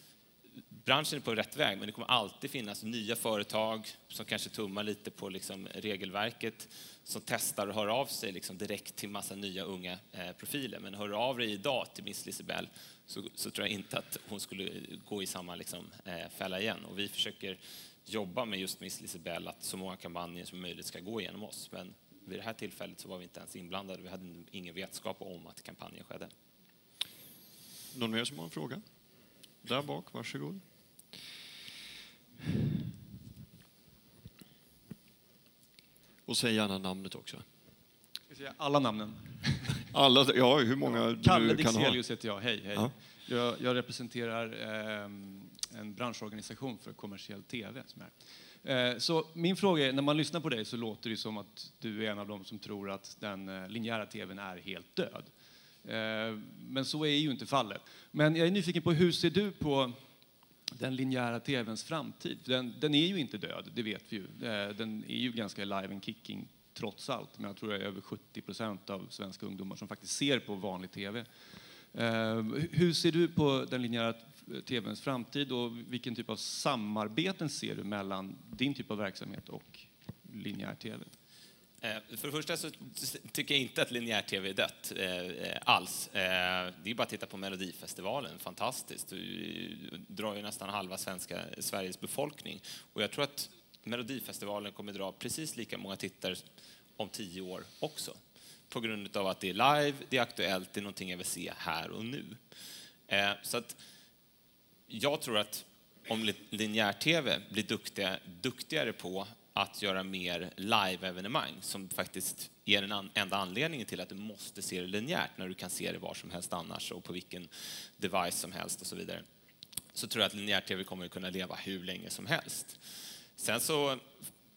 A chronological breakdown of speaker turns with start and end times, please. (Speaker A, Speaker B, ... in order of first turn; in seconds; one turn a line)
Speaker A: 0.8-26.3
Speaker B: 27.9-28.8
Speaker B: 29.6-30.6
Speaker B: 36.3-37.4
Speaker C: 38.3-39.9
Speaker B: 39.9-42.0
Speaker C: 40.9-60.1
Speaker C: 60.7-81.1
Speaker A: 81.8-96.4
Speaker A: 97.0-102.4
Speaker A: 103.1-103.8
Speaker A: 104.9-119.2
Speaker A: 120.0-122.8
Speaker A: 123.4-124.0